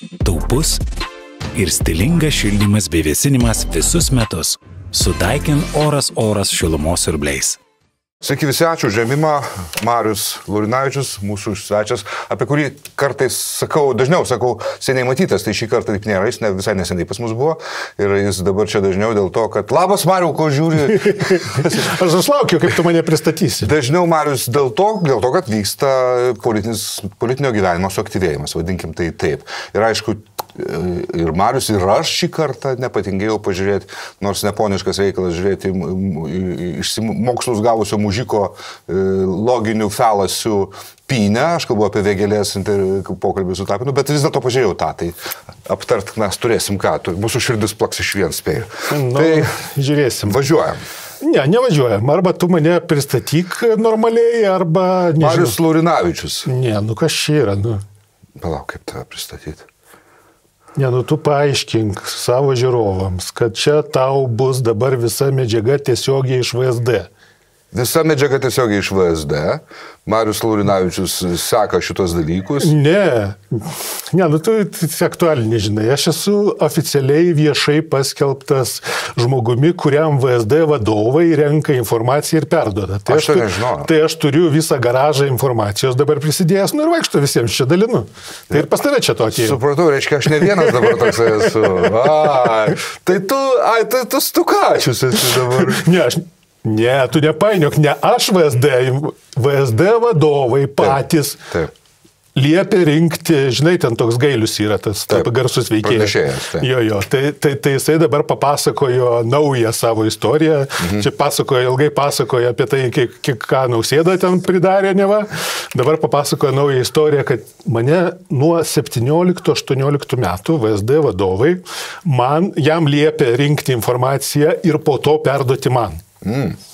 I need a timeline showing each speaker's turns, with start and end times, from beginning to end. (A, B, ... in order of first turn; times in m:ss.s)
0:00.2-0:00.8 A
0:01.5-0:07.6 A
0:08.2-0:21.9 B
0:21.0-0:23.7 C
0:23.6-0:49.5 B
0:48.9-0:50.4 C
0:50.3-0:50.8 B
0:51.2-0:55.6 C
0:55.2-0:56.5 B
0:56.4-0:57.8 C
0:58.4-0:59.7 B
1:00.8-1:07.1 C
1:07.7-1:12.7 B
1:12.6-1:29.6 C
1:23.1-1:23.9 B
1:29.3-1:35.9 B
1:30.4-1:31.2 C
1:35.4-1:41.5 C
1:42.4-2:06.0 C
1:45.8-1:46.7 B
2:06.2-2:06.6 B